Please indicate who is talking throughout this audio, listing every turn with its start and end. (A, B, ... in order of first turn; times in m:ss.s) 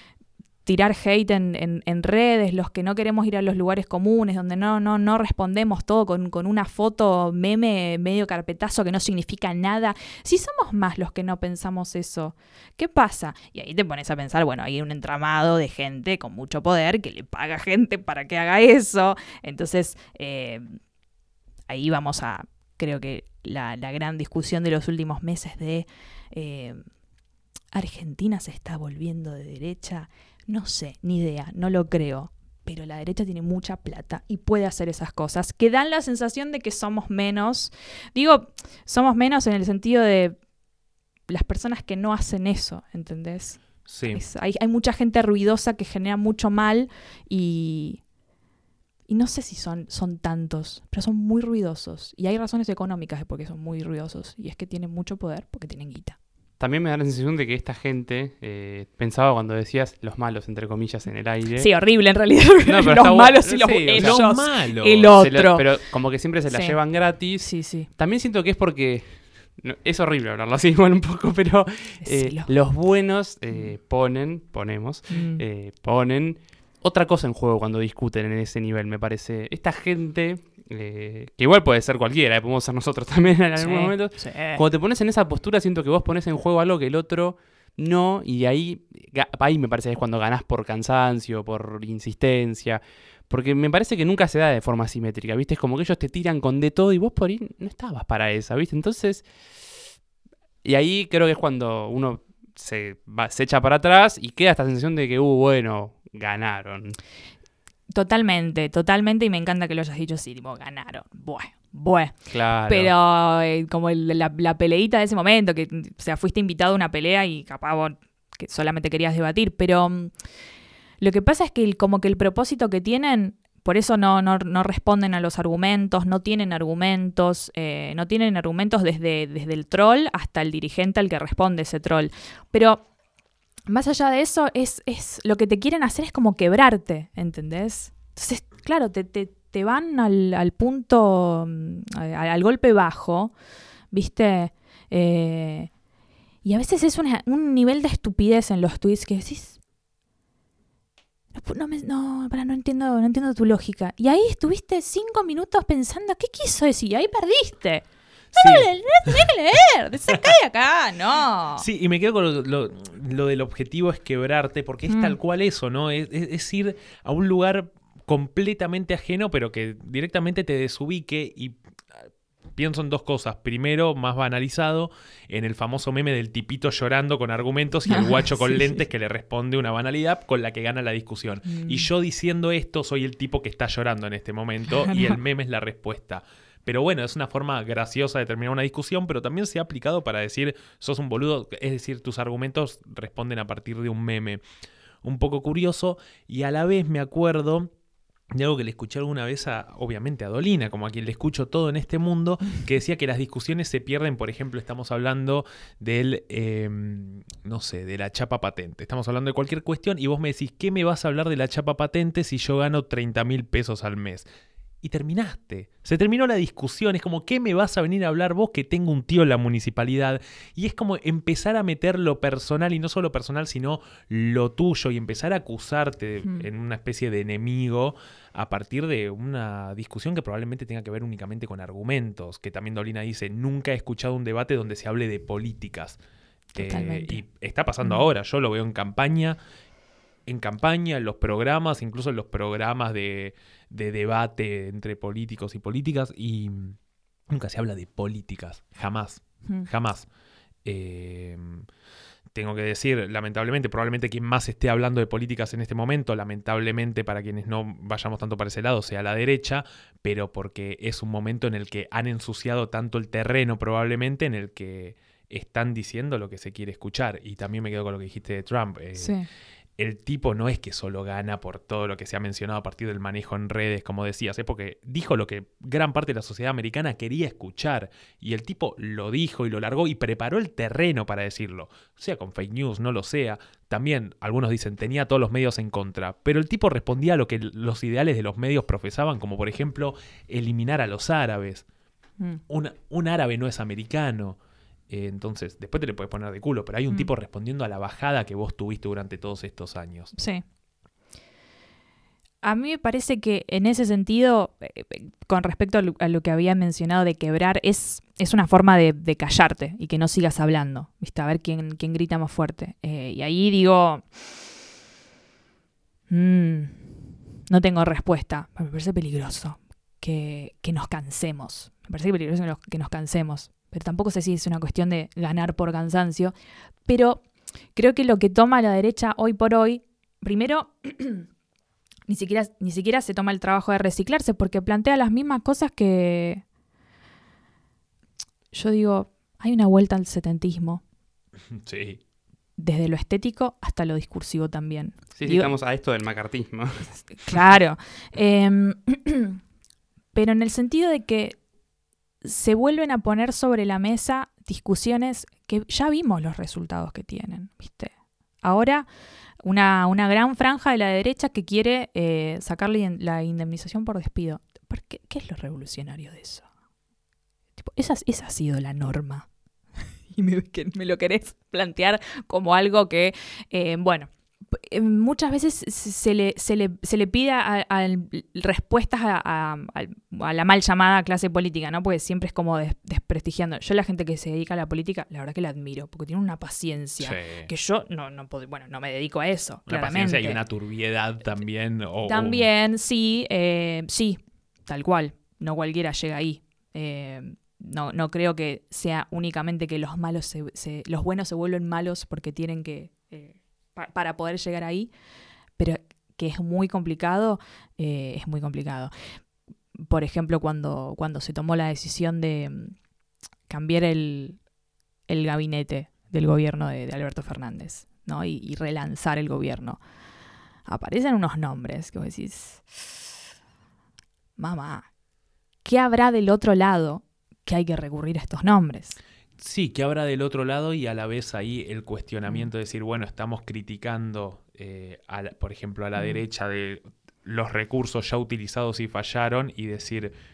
0:00.7-0:20.8 A
0:21.7-0:26.8 A
0:27.7-0:40.4 A
0:41.3-0:48.0 A
0:43.9-0:44.2 B
0:49.1-0:56.2 A
0:56.6-1:01.7 C
1:01.6-1:05.8 A
1:02.6-1:04.2 C
1:04.0-1:05.1 B
1:05.2-1:39.3 C
1:06.5-1:06.8 A
1:07.4-1:07.9 A
1:12.0-1:12.5 A
1:15.1-1:15.4 A
1:23.6-1:24.6 A
1:40.6-1:47.0 C
1:47.9-2:00.1 A
1:52.3-1:52.9 C
2:01.0-2:12.8 A
2:13.7-2:23.3 A
2:23.9-2:25.7 A
2:26.4-2:29.6 A
2:31.3-2:41.6 A
2:38.4-2:39.1 B
2:41.6-3:14.4 B
2:44.9-2:45.2 A
2:57.9-2:58.7 A
3:01.5-3:01.9 A
3:04.8-3:05.2 A
3:15.0-3:17.7 B
3:18.3-3:34.3 B
3:34.8-3:56.0 B
3:56.5-3:57.2 A
3:56.6-3:59.4 B
4:00.3-4:06.8 B
4:07.3-4:10.1 B
4:10.6-4:11.7 B
4:12.3-4:29.1 B
4:29.0-4:29.3 A
4:29.8-4:51.6 B
4:52.5-4:54.4 B
4:54.9-5:00.1 B
5:00.2-5:00.4 A
5:02.4-5:14.4 A
5:16.1-5:26.3 A
5:26.9-5:27.2 A
5:27.8-5:31.3 A
5:32.1-5:36.4 A
5:38.5-5:40.8 A
5:41.5-5:42.0 B
5:42.6-5:45.6 A
5:45.2-5:46.9 C
5:47.2-5:49.4 A
5:50.1-5:51.4 A
5:52.2-5:58.9 A
5:59.4-6:06.5 A
6:07.6-6:09.3 A
6:10.1-6:30.4 A
6:27.0-6:27.5 B
6:29.7-6:32.5 B
6:32.0-6:44.9 A
6:45.6-6:48.9 A
6:49.8-6:52.8 A
6:53.5-6:54.4 A
6:55.1-6:59.8 A
7:00.7-7:03.1 A
7:04.4-7:04.9 A
7:05.6-7:09.0 A
7:09.4-7:20.1 B
7:16.0-7:16.2 A